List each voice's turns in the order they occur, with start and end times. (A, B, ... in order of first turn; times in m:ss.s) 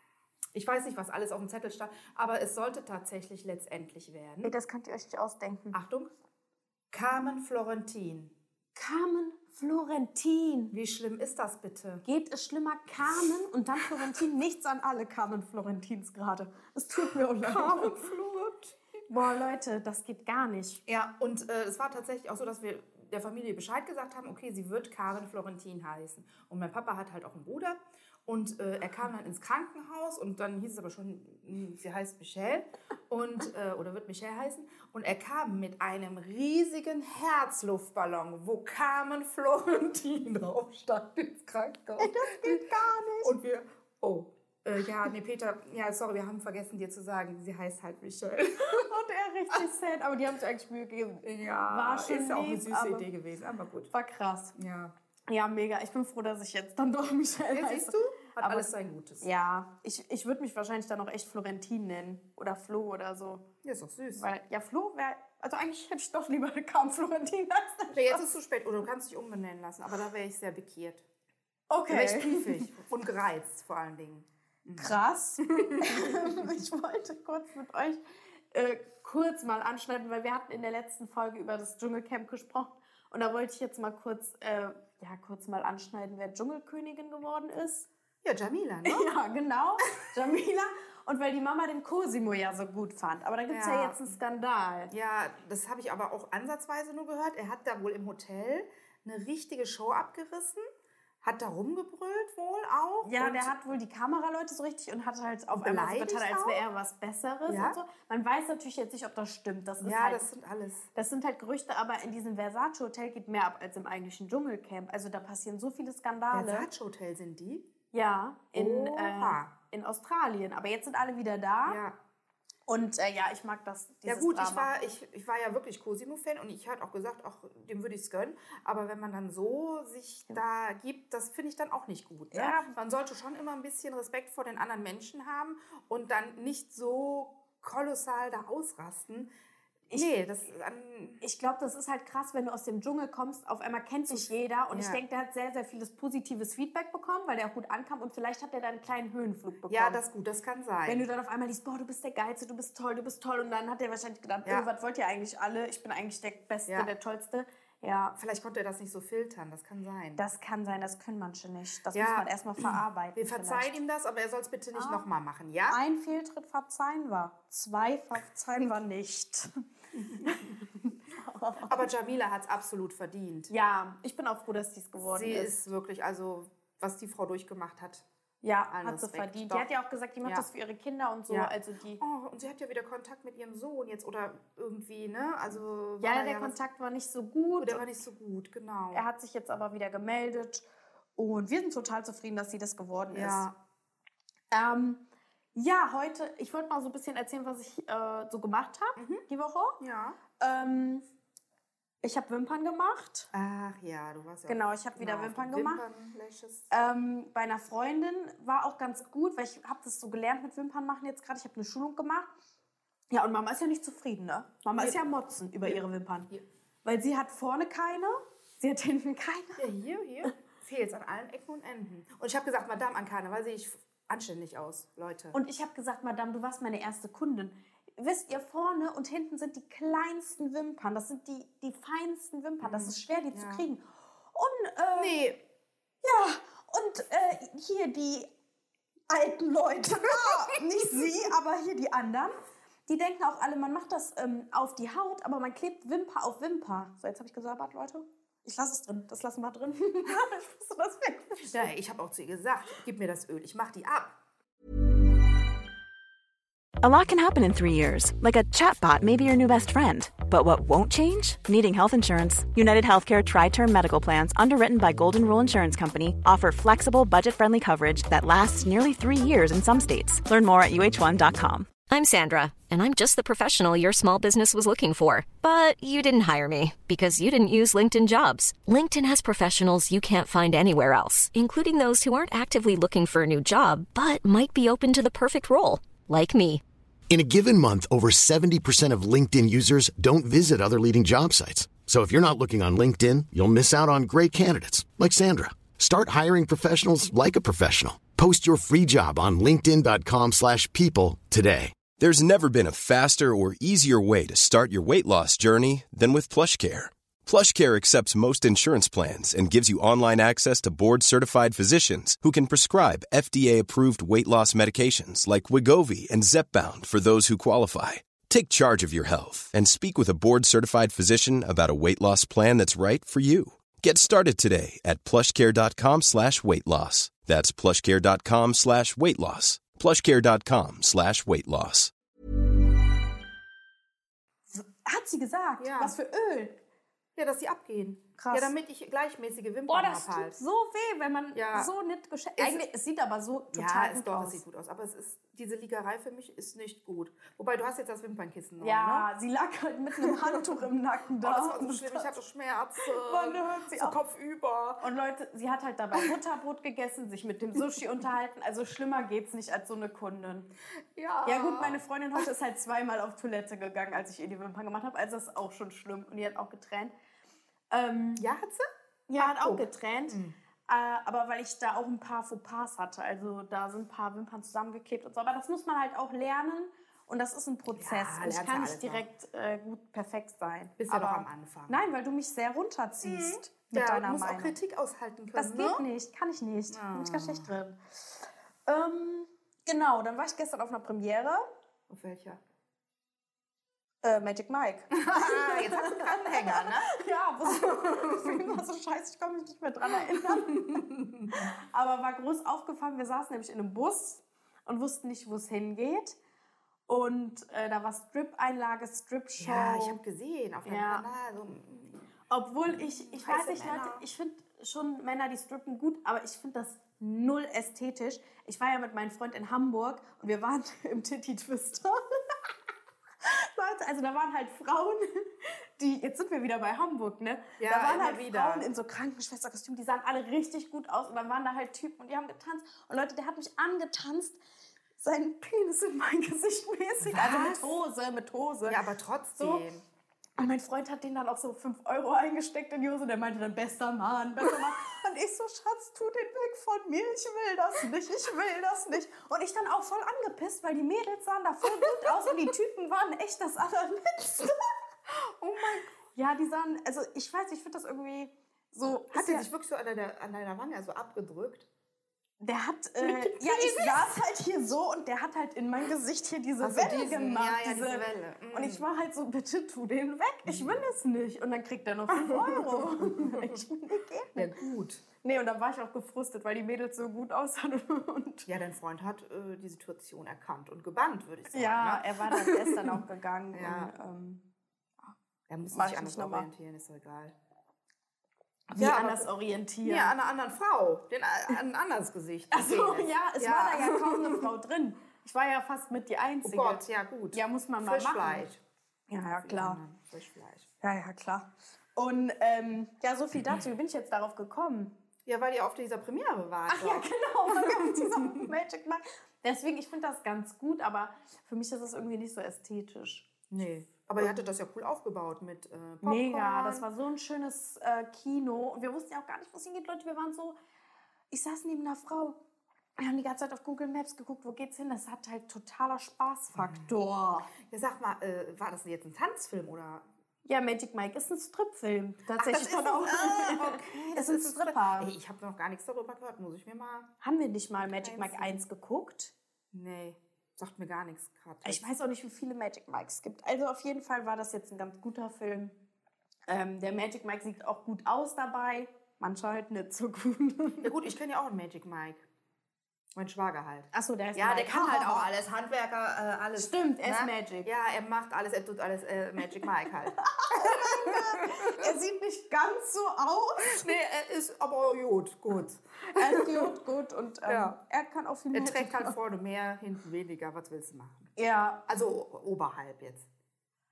0:00.5-0:04.6 A
0:04.4-0:05.8 B
0:05.7-0:06.1 A
0:06.9-0:08.3 A
0:08.8-0:10.7 B
0:10.7-0:12.0 A
0:12.0-0:18.0 B
0:17.0-0:18.8 A
0:19.1-0:20.8 B
0:20.9-0:42.7 A
0:42.0-0:43.4 B
0:43.2-0:48.9 A
0:48.6-0:53.1 B
0:51.2-0:53.9 A
0:53.9-0:54.6 B
0:54.6-0:54.9 A
0:55.3-0:58.7 B
0:57.5-0:59.3 A
0:59.2-1:03.4 B
1:03.6-1:04.3 A
1:04.2-1:08.2 B
1:07.9-1:11.0 A
1:11.7-1:12.7 B
1:11.9-1:16.5 A
1:14.8-1:27.9 B
1:28.2-1:29.1 A
1:28.8-1:34.9 B
1:33.5-1:34.2 A
1:34.9-1:40.6 A
1:41.2-1:43.6 A
1:43.0-1:50.3 B
1:45.5-1:46.6 A
1:47.4-1:47.8 A
1:49.8-1:50.9 A
1:51.0-1:56.7 B
1:56.3-1:57.7 A
1:57.9-2:01.8 B
1:58.5-1:59.5 A
2:01.6-2:02.0 A
2:02.7-2:04.7 B
2:04.0-2:19.3 A
2:12.3-2:12.7 B
2:19.9-2:20.1 B
2:19.9-2:21.2 A
2:21.2-2:30.0 B
2:24.1-2:25.0 A
2:29.7-2:31.1 A
2:30.9-2:38.2 B
2:38.2-2:40.2 A
2:40.2-2:43.8 B
2:41.9-2:45.8 A
2:44.7-2:45.0 B
2:45.7-2:49.6 B
2:49.9-2:50.5 A
2:50.2-2:51.8 B
2:51.6-2:53.5 A
2:53.5-2:55.6 B
2:55.0-2:58.1 A
2:58.4-3:02.0 B
2:58.7-2:59.7 A
3:01.3-3:06.6 A
3:06.0-3:07.8 B
3:07.6-3:09.0 A
3:08.9-3:13.5 B
3:13.1-3:13.6 A
3:14.5-3:15.0 B
3:15.6-3:19.8 B
3:19.0-3:19.2 A
3:19.8-3:20.2 A
3:20.4-3:21.0 B
3:22.0-3:23.3 B
3:23.3-3:26.7 A
3:24.5-3:25.8 B
3:26.7-3:32.3 B
3:33.1-3:36.3 B
3:35.6-3:36.4 A
3:36.8-3:39.7 B
3:39.6-3:45.4 A
3:45.3-3:55.2 B
3:52.6-3:53.6 A
3:54.9-3:55.4 A
3:56.0-3:58.3 B
3:59.1-4:02.4 B
4:00.0-4:01.3 A
4:02.9-4:11.7 B
4:11.4-4:14.2 A
4:16.8-4:31.7 C
4:31.9-4:46.6 D
4:47.1-5:01.8 E
5:02.0-5:31.9 F
5:34.5-5:36.6 B
5:35.6-5:36.0 A
5:37.2-5:40.4 A
5:38.2-5:38.5 B
5:39.7-5:44.4 B
5:41.3-5:41.7 A
5:42.4-5:42.6 A
5:43.5-5:49.1 A
5:48.6-5:52.2 B
5:50.0-5:50.5 A
5:51.2-5:54.9 A
5:52.8-5:54.0 B
5:54.8-6:00.5 B
6:00.9-6:02.2 A
6:01.2-6:06.9 B
6:07.7-6:08.2 B
6:08.2-6:10.4 A
6:09.1-6:24.5 B
6:17.8-6:19.1 A
6:20.8-6:21.8 A
6:23.0-6:25.9 A
6:25.4-6:31.4 B
6:26.7-6:27.5 A
6:31.9-6:32.4 A
6:34.0-6:46.2 B
6:34.9-6:38.6 A
6:39.9-6:41.5 A
6:46.9-6:50.0 B
6:49.4-6:52.0 A
6:50.6-6:51.0 B
6:52.3-7:02.4 B
6:52.7-6:54.0 A
7:03.2-7:14.4 B
7:07.6-7:08.7 A
7:15.0-7:18.8 B
7:17.0-7:17.7 A
7:18.6-7:19.8 A
7:19.4-7:19.6 B
7:20.4-7:34.8 B
7:31.7-7:32.4 A
7:35.1-7:36.0 A
7:36.1-7:39.5 B
7:39.1-7:41.7 A
7:42.4-7:54.6 B
7:43.0-7:44.1 A
7:46.6-7:48.9 A
7:50.5-7:50.8 A
7:52.1-7:53.6 A
7:54.4-7:55.0 A
7:55.2-7:58.5 B
7:58.5-8:03.0 A
8:01.5-8:04.4 B
8:03.5-8:03.9 A
8:05.5-8:07.4 A
8:05.7-8:06.5 B
8:08.7-8:10.1 B
8:08.8-8:09.3 A
8:09.8-8:14.5 A
8:12.5-8:18.5 B
8:16.4-8:18.6 A
8:19.1-8:19.8 B
8:19.4-8:20.7 A
8:20.8-8:24.9 B
8:25.2-8:28.5 A
8:26.7-8:33.3 B
8:33.5-8:36.8 A
8:36.0-8:40.6 B
8:41.3-8:42.4 B
8:43.0-8:47.5 B
8:46.6-8:46.9 A
8:47.6-8:50.1 A
8:50.5-8:55.1 B
8:52.3-8:57.1 A
8:57.2-8:59.3 B
8:58.0-8:58.6 A
8:59.7-9:01.8 A
9:01.6-9:05.8 B
9:06.5-9:10.9 B
9:10.8-9:12.2 A
9:13.1-9:21.9 A
9:13.9-9:15.3 B
9:16.6-9:17.7 B
9:20.2-9:23.9 B
9:23.6-9:26.8 A
9:26.1-9:29.2 B
9:27.5-9:27.8 A
9:28.5-9:31.3 A
9:31.4-9:31.8 B
9:31.9-9:33.3 A